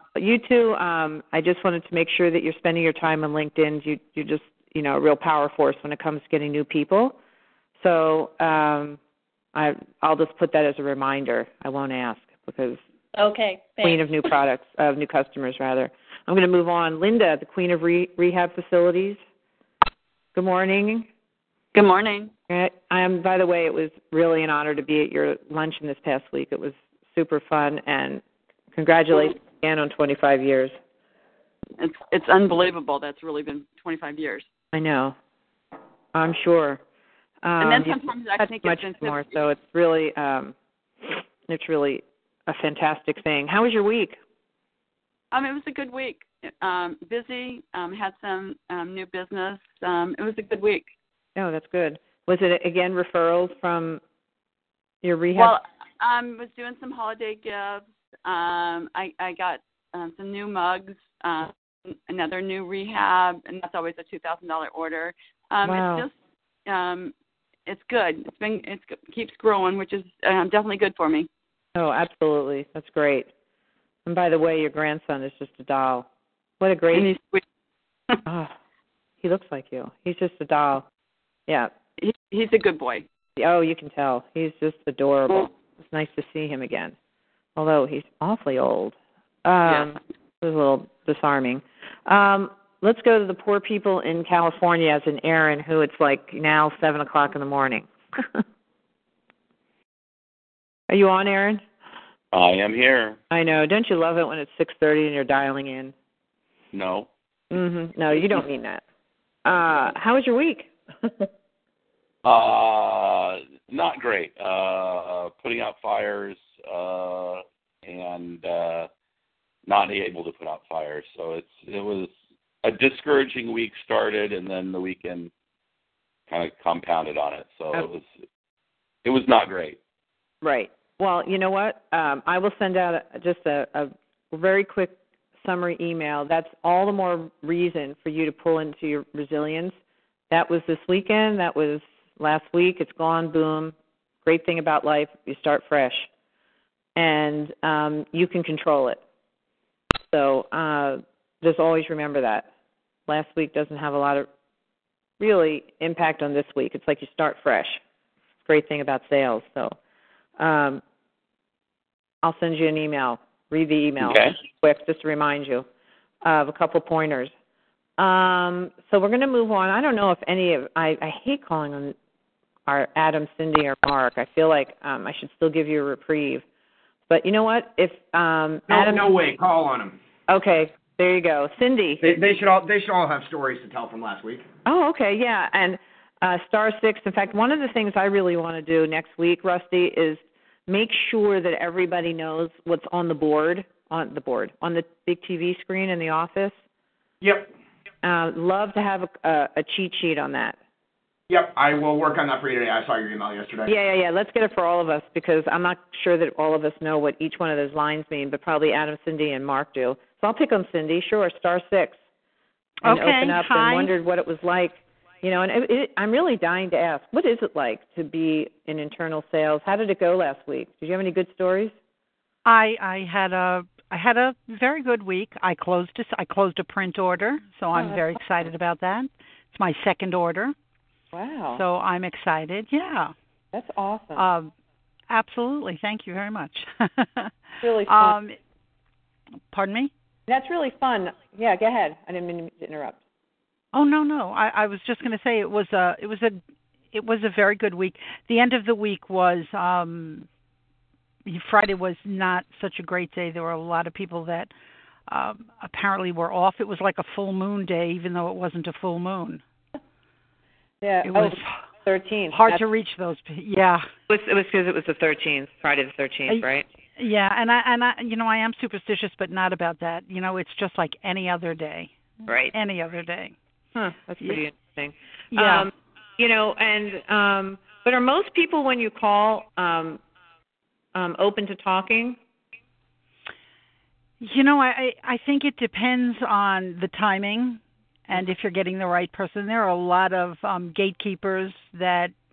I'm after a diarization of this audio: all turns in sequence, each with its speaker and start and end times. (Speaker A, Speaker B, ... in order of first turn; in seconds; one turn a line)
Speaker A: 0.1-7.2
Speaker A: 7.8-9.0
Speaker A: 9.5-12.8
Speaker B: 13.1-14.1
Speaker A: 13.8-19.2
Speaker A: 20.3-21.1
Speaker B: 21.7-22.3
Speaker A: 22.5-28.2
Speaker A: 28.7-30.7
Speaker B: 31.8-34.5
Speaker A: 34.7-35.1
Speaker A: 36.1-36.8
Speaker A: 37.4-40.5
Speaker B: 37.6-39.3
Speaker A: 41.0-44.2
Speaker B: 45.3-50.9
Speaker A: 51.4-54.0
Speaker A: 55.0-55.6
Speaker B: 55.3-66.1
Speaker A: 65.6-66.0
Speaker B: 66.7-67.1
Speaker B: 67.7-71.3
Speaker A: 71.7-73.3
Speaker A: 74.0-76.0
Speaker A: 76.6-77.1
Speaker B: 76.9-77.4
Speaker A: 78.2-78.5
Speaker A: 79.2-80.8
Speaker B: 82.0-83.0
Speaker A: 83.4-86.9
Speaker A: 87.5-98.4
Speaker A: 100.9-101.6
Speaker C: 102.3-103.2
Speaker A: 103.3-105.9
Speaker C: 106.7-107.1
Speaker A: 107.5-108.8
Speaker A: 109.4-111.3
Speaker C: 112.2-118.9
Speaker C: 119.7-122.1
Speaker C: 122.6-125.3
Speaker C: 126.3-128.1
Speaker C: 129.0-129.8
Speaker A: 130.4-139.8
Speaker A: 140.3-146.1
Speaker A: 146.9-149.0
Speaker A: 150.1-152.5
Speaker A: 153.1-154.3
Speaker A: 155.2-157.8
Speaker A: 158.5-159.8
Speaker A: 160.4-160.8
Speaker A: 162.2-165.7
Speaker C: 164.0-164.4
Speaker A: 166.2-167.3
Speaker A: 168.0-171.9
Speaker A: 172.7-176.4
Speaker A: 177.1-179.1
Speaker D: 178.7-180.0
Speaker A: 180.3-182.1
Speaker D: 182.0-184.4
Speaker A: 184.6-196.6
Speaker D: 197.2-197.5
Speaker A: 198.0-200.6
Speaker D: 201.3-203.7
Speaker A: 203.7-212.0
Speaker E: 212.8-213.9
Speaker A: 212.8-221.7
Speaker E: 222.4-230.5
Speaker A: 227.7-228.1
Speaker A: 231.1-231.6
Speaker E: 231.5-233.1
Speaker A: 233.5-234.3
Speaker E: 234.2-234.5
Speaker E: 235.1-237.3
Speaker A: 237.6-238.2
Speaker E: 237.8-238.4
Speaker E: 239.5-239.9
Speaker A: 240.3-243.0
Speaker E: 243.7-246.4
Speaker E: 246.9-250.3
Speaker E: 251.2-254.5
Speaker E: 255.1-259.4
Speaker A: 260.8-262.6
Speaker E: 261.0-261.6
Speaker E: 262.3-263.9
Speaker A: 264.1-266.6
Speaker E: 266.3-271.9
Speaker A: 272.3-272.5
Speaker E: 272.5-273.4
Speaker A: 273.7-280.0
Speaker E: 275.3-275.7
Speaker A: 280.9-282.2
Speaker E: 284.2-292.1